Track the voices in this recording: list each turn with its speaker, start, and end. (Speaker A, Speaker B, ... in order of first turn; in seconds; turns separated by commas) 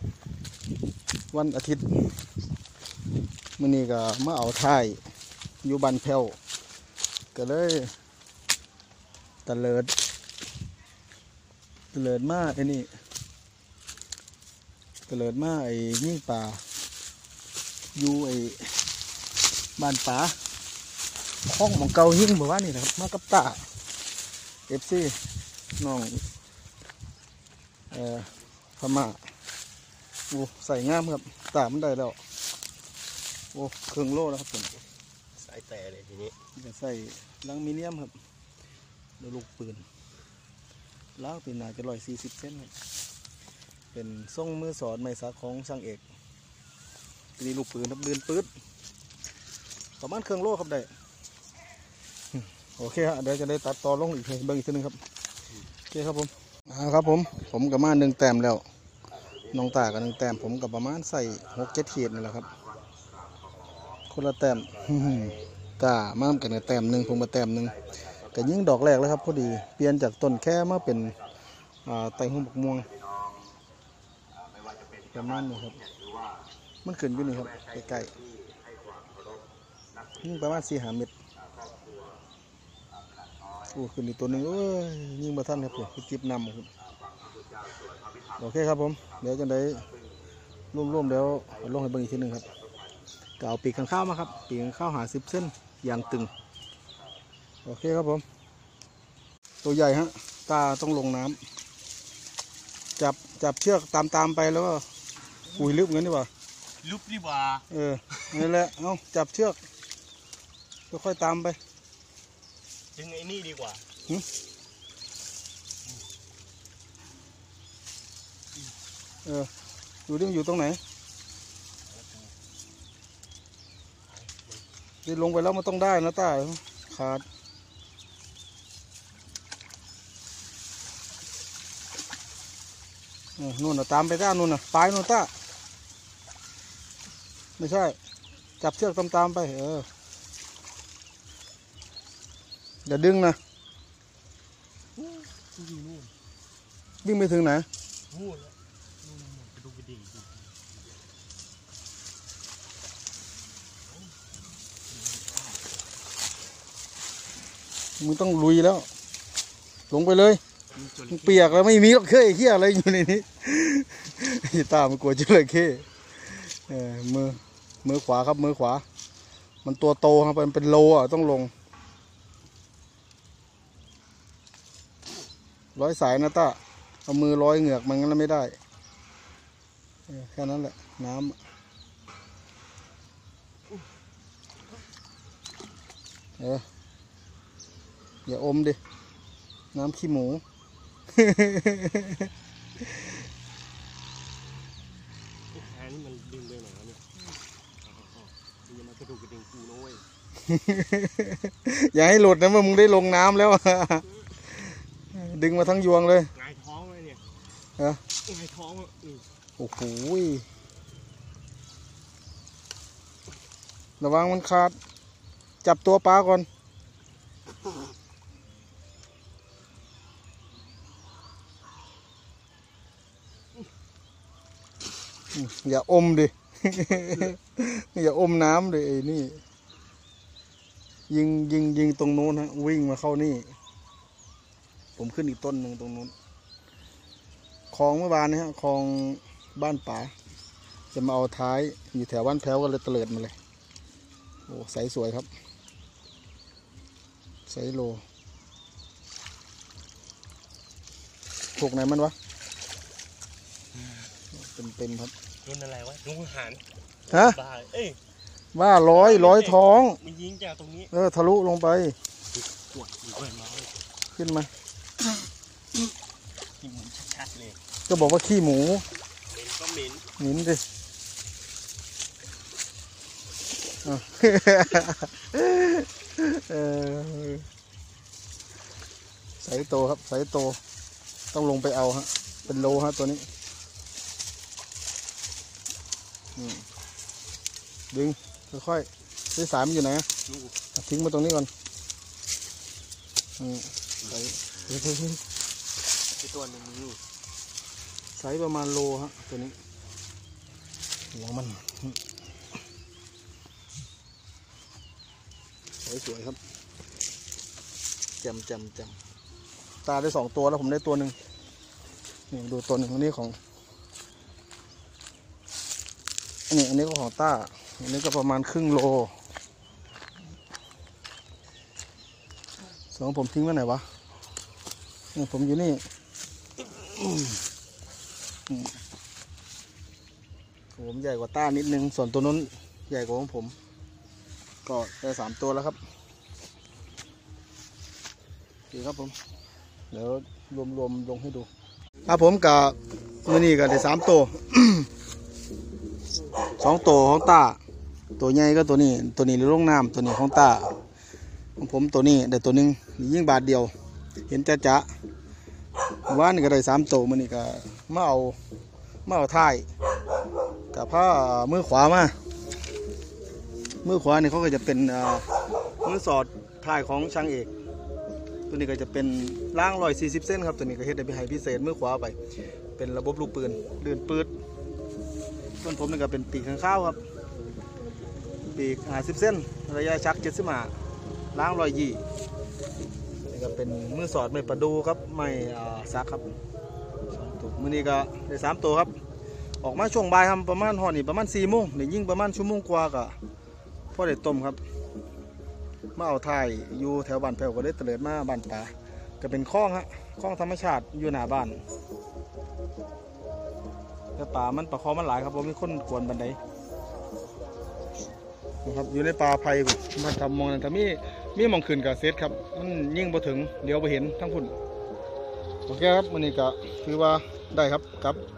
Speaker A: 1.3-2.2, Speaker A: 3.6-5.0, Speaker A: 5.6-6.4, Speaker A: 7.3-7.9, Speaker A: 9.4-9.9, Speaker A: 11.9-12.9, Speaker A: 15.1-16.6, Speaker A: 17.9-18.7, Speaker A: 19.8-20.4, Speaker A: 21.4-23.7, Speaker A: 24.7-25.2, Speaker A: 25.8-26.2, Speaker A: 27.9-29.2, Speaker A: 30.3-32.2, Speaker A: 33.5-34.8, Speaker B: 35.4-36.4, Speaker A: 36.5-38.1, Speaker A: 39.2-39.8, Speaker A: 41.2-42.7, Speaker A: 43.9-46.0, Speaker A: 47.4-48.5, Speaker A: 50.0-50.9, Speaker A: 52.8-55.0, Speaker A: 55.9-58.6, Speaker A: 59.5-62.5, Speaker A: 64.1-67.8, Speaker A: 68.3-71.1, Speaker A: 71.8-72.9, Speaker A: 75.1-75.8, Speaker A: 76.8-78.1, Speaker A: 80.2-81.1, Speaker A: 83.7-86.7, Speaker A: 88.4-89.9, Speaker A: 90.7-92.5, Speaker A: 93.4-96.3, Speaker A: 97.6-98.2, Speaker A: 99.6-101.4, Speaker A: 103.0-104.8, Speaker A: 105.5-106.3, Speaker B: 106.8-107.7, Speaker A: 107.7-109.6, Speaker A: 110.9-111.6, Speaker B: 112.9-113.8, Speaker A: 119.2-119.5, Speaker A: 120.1-120.8, Speaker B: 121.9-122.3, Speaker B: 124.1-124.6, Speaker A: 125.0-127.2, Speaker A: 133.4-135.3, Speaker A: 137.6-138.0, Speaker A: 138.6-139.9, Speaker A: 142.8-143.4, Speaker B: 144.9-146.1, Speaker A: 147.0-147.7, Speaker B: 148.1-150.5, Speaker B: 155.0-155.4, Speaker A: 158.0-158.9, Speaker A: 159.9-160.4, Speaker B: 160.7-161.7, Speaker A: 161.1-168.8, Speaker A: 169.6-171.5, Speaker A: 175.8-178.6, Speaker A: 180.1-181.4, Speaker A: 186.4-186.6, Speaker A: 188.2-188.8, Speaker A: 189.7-190.4, Speaker A: 191.1-192.3, Speaker B: 195.5-197.1, Speaker B: 197.8-200.0, Speaker A: 200.4-206.3, Speaker B: 206.3-207.2, Speaker B: 208.2-209.2, Speaker A: 209.6-210.4, Speaker A: 214.0-214.8, Speaker A: 215.6-216.5, Speaker A: 225.3-229.4, Speaker A: 231.1-233.5, Speaker A: 235.0-236.1, Speaker A: 237.7-240.1, Speaker A: 240.9-243.3, Speaker A: 244.5-245.3, Speaker A: 247.5-248.0, Speaker A: 251.6-252.1, Speaker B: 253.7-254.1, Speaker A: 254.3-255.1, Speaker B: 255.4-258.0, Speaker A: 257.1-257.4, Speaker A: 258.5-260.0, Speaker B: 258.9-260.9, Speaker A: 260.9-261.9, Speaker B: 262.3-263.7, Speaker A: 264.1-264.5, Speaker B: 266.6-267.6, Speaker A: 267.9-268.8, Speaker B: 269.3-270.1, Speaker A: 270.2-270.6, Speaker A: 273.8-277.4, Speaker A: 279.4-280.6, Speaker A: 281.3-283.3, Speaker A: 286.4-286.6, Speaker A: 287.9-290.1, Speaker B: 290.2-290.5, Speaker A: 290.7-291.5, Speaker A: 293.4-295.2, Speaker B: 296.2-297.0, Speaker A: 298.1-299.5, Speaker A: 301.1-302.0, Speaker A: 305.8-306.4, Speaker A: 308.2-309.0, Speaker A: 309.8-311.1, Speaker A: 312.3-313.4, Speaker A: 316.5-319.1, Speaker A: 322.9-323.9, Speaker A: 325.1-325.8, Speaker A: 330.7-333.6, Speaker A: 334.6-335.8, Speaker A: 338.7-339.2, Speaker A: 339.9-341.5, Speaker A: 342.1-344.9, Speaker A: 346.6-347.6, Speaker A: 348.2-350.8, Speaker A: 351.6-353.7, Speaker A: 354.3-354.9, Speaker A: 356.1-358.4, Speaker A: 359.1-359.7, Speaker A: 360.7-362.1, Speaker A: 363.8-365.2, Speaker A: 365.8-367.5, Speaker A: 368.5-372.2, Speaker A: 372.8-374.3, Speaker A: 375.6-377.0, Speaker A: 378.5-380.7, Speaker A: 381.3-382.0, Speaker A: 383.3-386.3, Speaker A: 387.1-388.9, Speaker A: 389.6-393.1, Speaker A: 393.9-394.6, Speaker A: 395.9-401.6, Speaker A: 404.1-406.4, Speaker A: 408.6-414.5, Speaker A: 415.7-418.2